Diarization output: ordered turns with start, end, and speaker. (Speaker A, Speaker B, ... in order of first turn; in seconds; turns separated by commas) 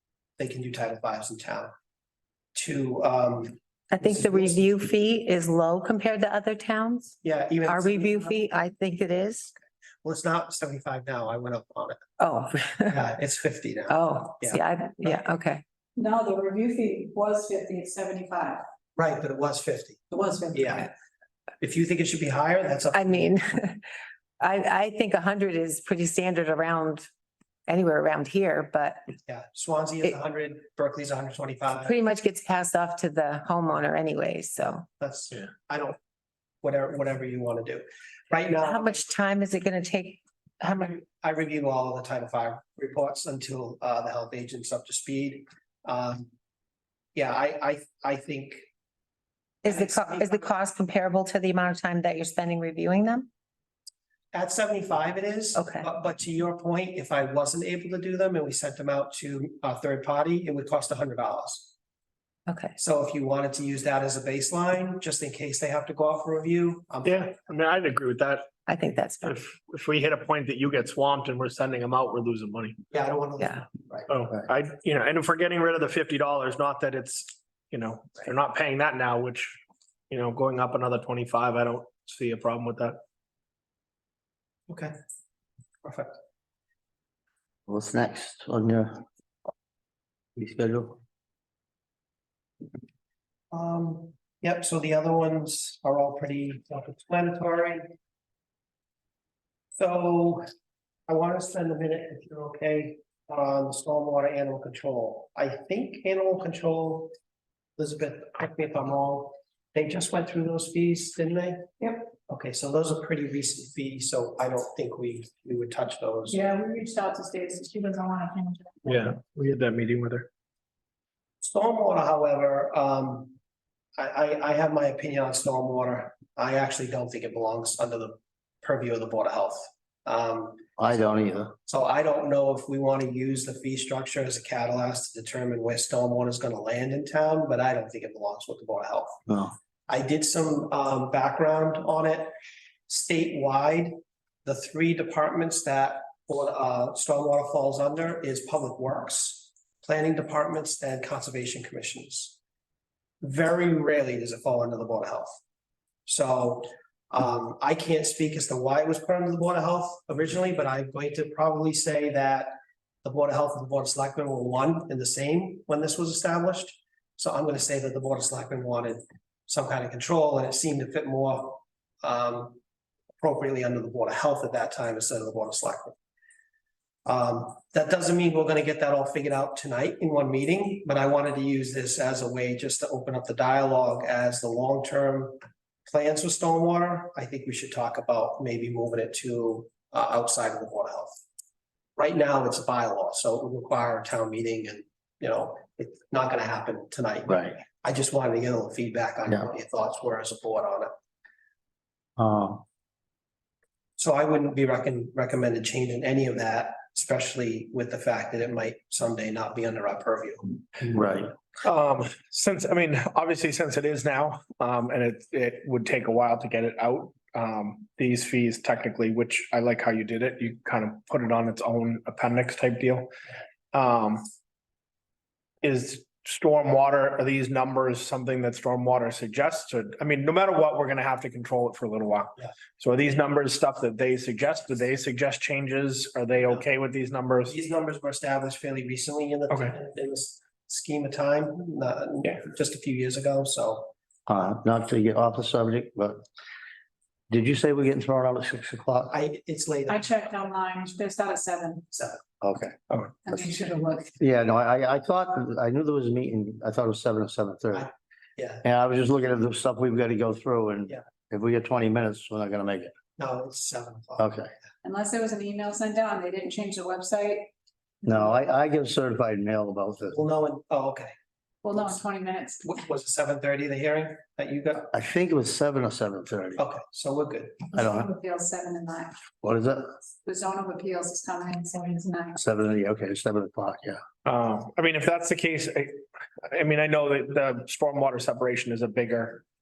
Speaker A: 0.4-1.7, Speaker A: 2.5-4.7, Speaker B: 3.9-9.5, Speaker A: 7.2-8.4, Speaker A: 10.0-12.0, Speaker B: 12.2-13.0, Speaker A: 12.9-15.2, Speaker B: 13.9-15.6, Speaker C: 16.0-18.6, Speaker A: 19.0-20.0, Speaker C: 20.1-20.9, Speaker A: 20.5-20.9, Speaker A: 21.6-23.3, Speaker B: 22.9-23.9, Speaker B: 24.4-27.1, Speaker B: 27.7-29.1, Speaker A: 29.3-31.9, Speaker B: 31.8-34.9, Speaker A: 35.0-36.0, Speaker A: 36.6-39.1, Speaker B: 38.6-41.0, Speaker A: 40.8-46.3, Speaker A: 47.1-48.7, Speaker B: 49.6-53.3, Speaker A: 49.7-50.5, Speaker A: 54.3-61.7, Speaker B: 55.6-55.9, Speaker B: 62.5-62.8, Speaker A: 62.8-67.3, Speaker D: 67.0-68.5, Speaker B: 68.7-69.4, Speaker D: 69.2-72.8, Speaker A: 72.9-74.1, Speaker D: 74.1-83.0, Speaker A: 85.8-86.2, Speaker E: 87.7-89.0, Speaker E: 90.4-91.0, Speaker A: 93.5-97.9, Speaker A: 99.8-100.5, Speaker A: 101.1-107.1, Speaker A: 107.8-116.4, Speaker C: 116.3-119.0, Speaker D: 118.9-120.3, Speaker A: 121.4-123.4, Speaker A: 124.0-130.6, Speaker E: 130.8-131.6, Speaker A: 131.7-139.2, Speaker E: 139.3-139.5, Speaker A: 139.9-142.3, Speaker A: 142.9-152.4, Speaker A: 153.2-155.4, Speaker A: 156.1-172.6, Speaker A: 173.2-175.9, Speaker A: 177.1-191.2, Speaker A: 192.0-200.9, Speaker E: 197.3-197.6, Speaker E: 202.2-202.6, Speaker A: 204.0-210.5, Speaker E: 210.8-211.3, Speaker D: 211.6-223.1, Speaker D: 223.7-224.2, Speaker D: 225.6-237.6, Speaker A: 237.5-243.9, Speaker E: 244.3-246.2, Speaker E: 247.3-249.1, Speaker A: 249.1-250.4, Speaker C: 249.9-251.9, Speaker E: 252.4-252.8, Speaker C: 253.2-254.2, Speaker E: 254.2-257.9, Speaker A: 257.7-258.6, Speaker E: 258.6-262.9, Speaker A: 263.2-264.3, Speaker E: 264.2-264.5, Speaker C: 264.8-267.5, Speaker E: 268.0-270.2, Speaker A: 270.1-271.1, Speaker C: 271.6-272.7, Speaker A: 272.6-274.9, Speaker E: 274.9-276.6, Speaker A: 276.6-277.7, Speaker C: 277.7-279.2, Speaker E: 277.7-278.1, Speaker E: 279.4-279.9, Speaker C: 280.2-282.4, Speaker E: 282.4-284.0, Speaker D: 284.2-289.4